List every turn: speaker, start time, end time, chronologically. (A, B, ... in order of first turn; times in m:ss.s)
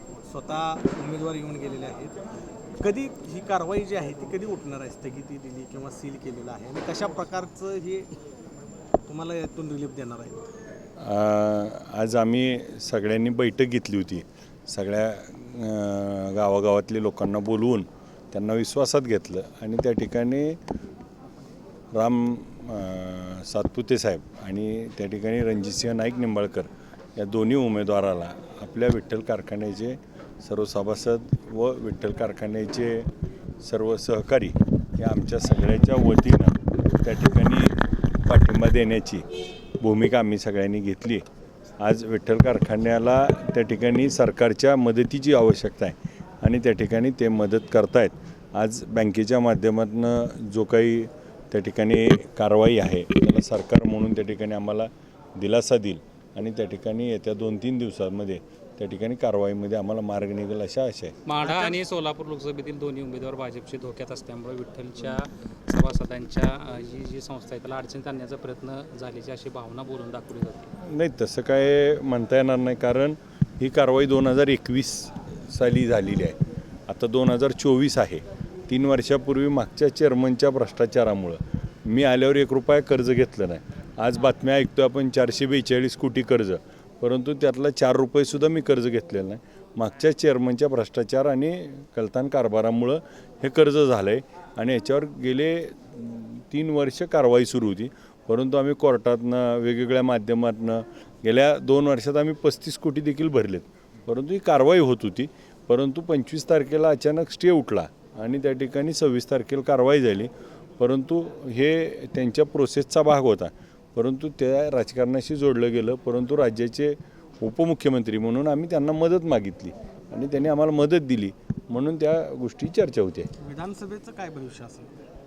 0:00.2-0:02.2 A
0:02.8-0:08.1 A
0:09.0-0:10.4 A
0:11.0-0:20.6 B
0:21.9-0:39.2 B
0:39.8-0:41.2 B
0:41.8-1:01.1 B
1:01.2-1:10.7 C
1:01.4-1:01.8 A
1:10.8-1:16.4 B
1:16.9-2:03.3 B
2:03.4-2:05.0 A